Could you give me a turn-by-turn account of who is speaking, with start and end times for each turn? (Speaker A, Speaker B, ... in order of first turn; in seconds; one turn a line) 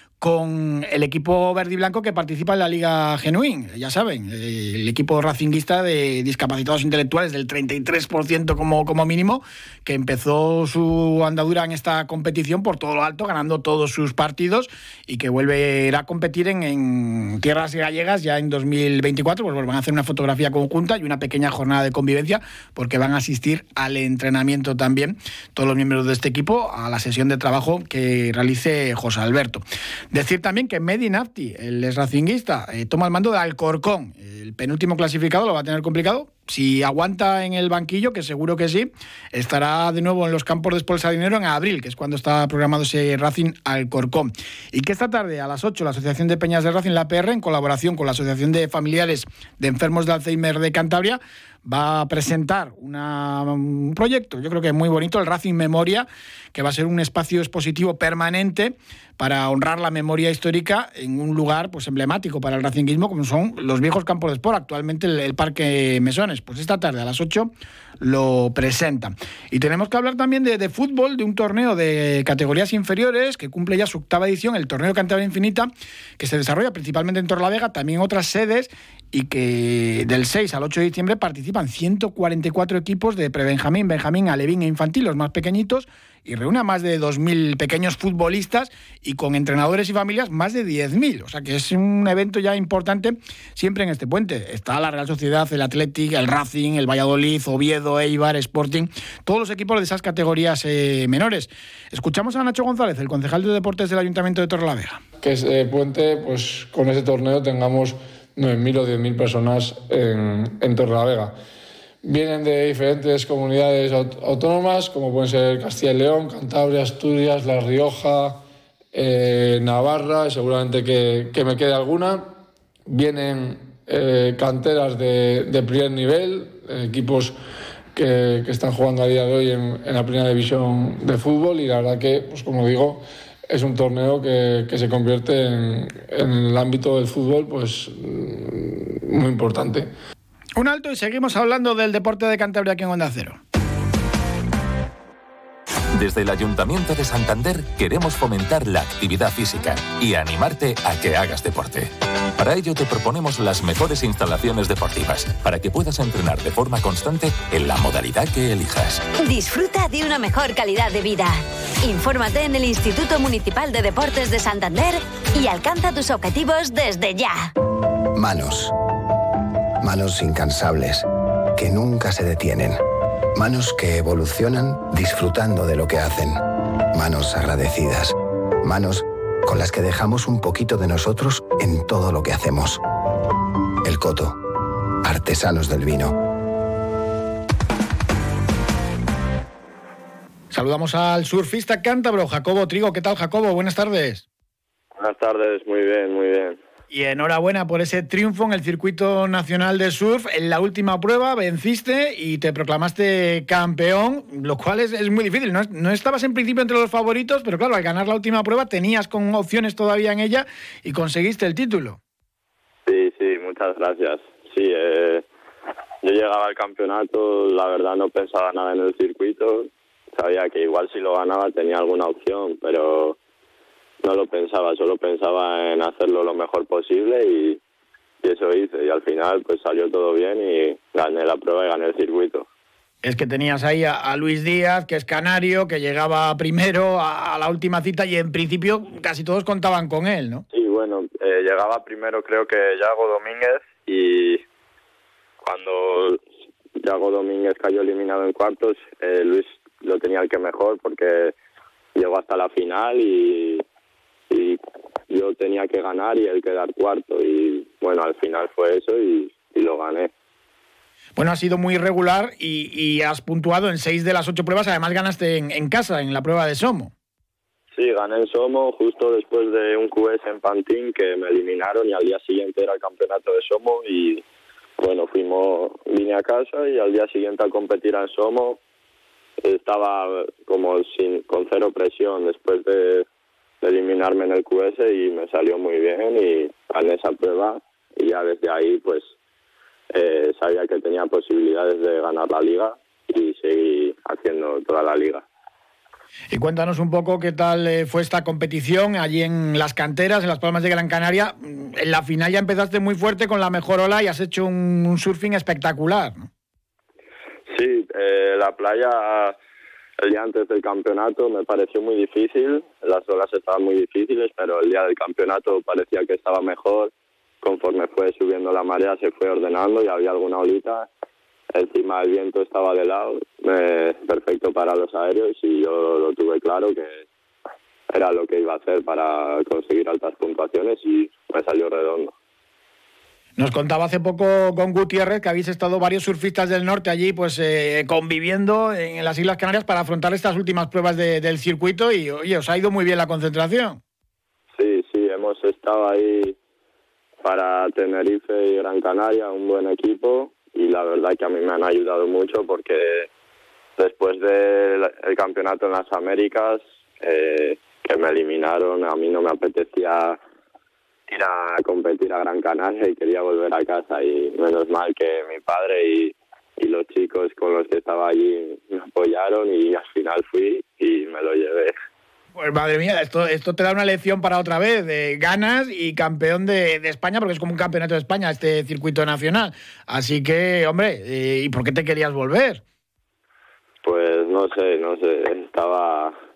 Speaker A: 0.2-105.0
Speaker B: 105.2-111.3
Speaker B: 112.0-118.4
Speaker B: 118.9-122.3
Speaker B: 122.9-127.4
Speaker B: 128.0-139.9
Speaker A: 140.6-143.4
Speaker C: 145.9-159.0
Speaker D: 159.2-167.5
Speaker E: 168.1-168.7
Speaker E: 169.8-172.8
Speaker E: 173.3-176.4
Speaker E: 176.9-182.8
Speaker E: 183.8-184.4
Speaker E: 185.0-186.1
Speaker A: 190.5-194.2
Speaker F: 195.0-196.6
Speaker A: 196.9-212.0
Speaker F: 212.9-215.2
Speaker F: 216.0-223.2
Speaker F: 224.0-227.6
Speaker F: 228.2-232.5
Speaker A: 233.0-240.4
Speaker F: 240.5-244.4
Speaker F: 245.4-246.2
Speaker F: 246.8-251.3
Speaker F: 251.9-253.6
Speaker F: 254.3-260.1
Speaker A: 261.2-266.9
Speaker F: 267.7-274.2
Speaker F: 274.8-278.6
Speaker F: 279.4-283.1
Speaker F: 283.6-289.1
Speaker F: 289.9-295.2
Speaker A: 296.3-306.3
Speaker F: 307.5-309.4
Speaker F: 310.0-320.9
Speaker F: 321.5-327.1
Speaker F: 327.9-332.1
Speaker A: 333.4-343.8
Speaker F: 344.6-346.4
Speaker F: 347.2-353.1
Speaker F: 353.8-360.2
Speaker F: 361.1-371.8
Speaker A: 372.4-382.6
Speaker F: 383.8-386.1